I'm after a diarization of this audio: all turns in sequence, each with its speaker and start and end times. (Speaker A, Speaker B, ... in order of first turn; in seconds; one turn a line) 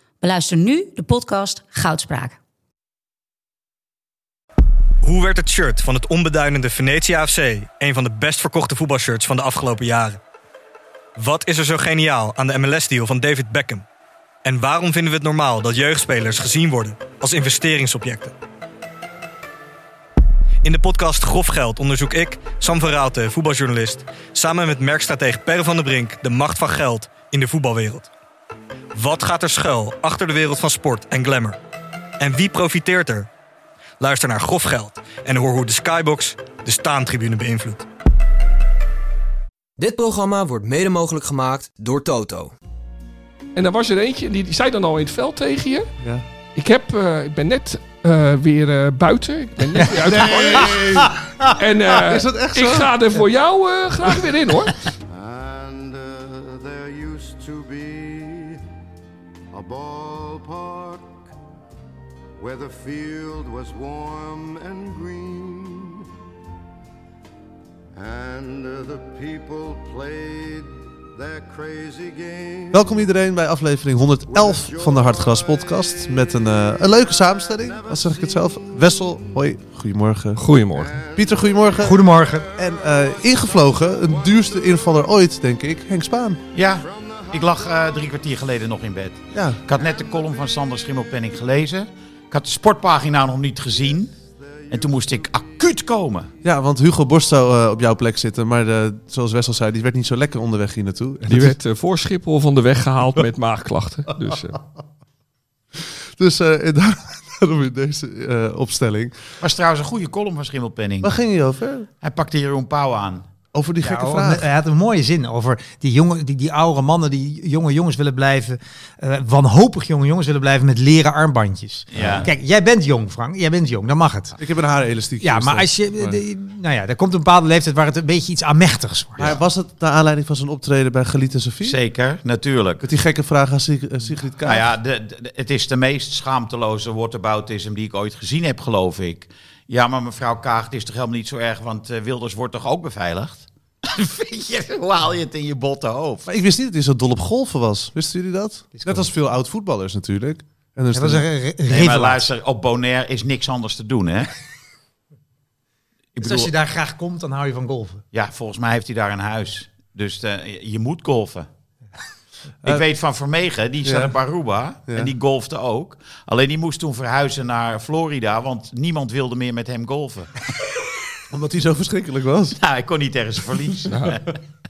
Speaker A: 0.2-2.4
Speaker B: 5.0-10.2
Speaker B: 11.2-13.8
Speaker B: 14.4-18.4
Speaker B: 20.6-28.1
Speaker B: 28.9-31.6
Speaker B: 32.2-33.3
Speaker B: 34.0-37.9
Speaker C: 39.8-42.5
Speaker D: 43.5-45.9
Speaker D: 46.5-50.8
Speaker E: 49.8-51.5
Speaker F: 50.0-51.1
Speaker D: 51.6-54.8
Speaker F: 52.0-53.2
Speaker G: 55.1-58.6
Speaker G: 59.5-61.3
Speaker G: 62.4-66.0
Speaker G: 68.0-73.0
Speaker F: 72.7-80.4
Speaker G: 74.3-76.1
Speaker G: 77.1-78.6
Speaker D: 80.4-81.0
Speaker G: 80.7-85.2
Speaker F: 81.2-82.0
Speaker E: 81.8-82.5
Speaker F: 82.6-86.4
Speaker H: 86.5-94.2
Speaker G: 86.6-88.5
Speaker F: 89.3-89.6
Speaker G: 89.8-90.6
Speaker G: 93.7-96.0
Speaker H: 94.7-96.3
Speaker F: 96.4-101.5
Speaker D: 101.3-104.6
Speaker F: 105.8-109.2
Speaker H: 109.4-111.1
Speaker F: 111.0-111.9
Speaker H: 112.0-113.2
Speaker F: 113.5-114.5
Speaker E: 113.8-124.4
Speaker H: 121.9-122.3
Speaker F: 122.0-122.2
Speaker F: 124.4-126.2
Speaker E: 125.2-129.3
Speaker F: 129.2-131.8
Speaker H: 131.6-132.8
Speaker F: 132.8-134.7
Speaker H: 134.4-146.3
Speaker F: 146.3-151.2
Speaker E: 148.8-149.1
Speaker E: 150.9-152.3
Speaker H: 151.7-154.3
Speaker H: 156.1-156.5
Speaker E: 156.2-158.1
Speaker H: 158.1-161.5
Speaker H: 162.7-170.5
Speaker F: 163.8-164.2
Speaker F: 171.3-172.6
Speaker H: 172.6-174.2
Speaker D: 173.9-174.2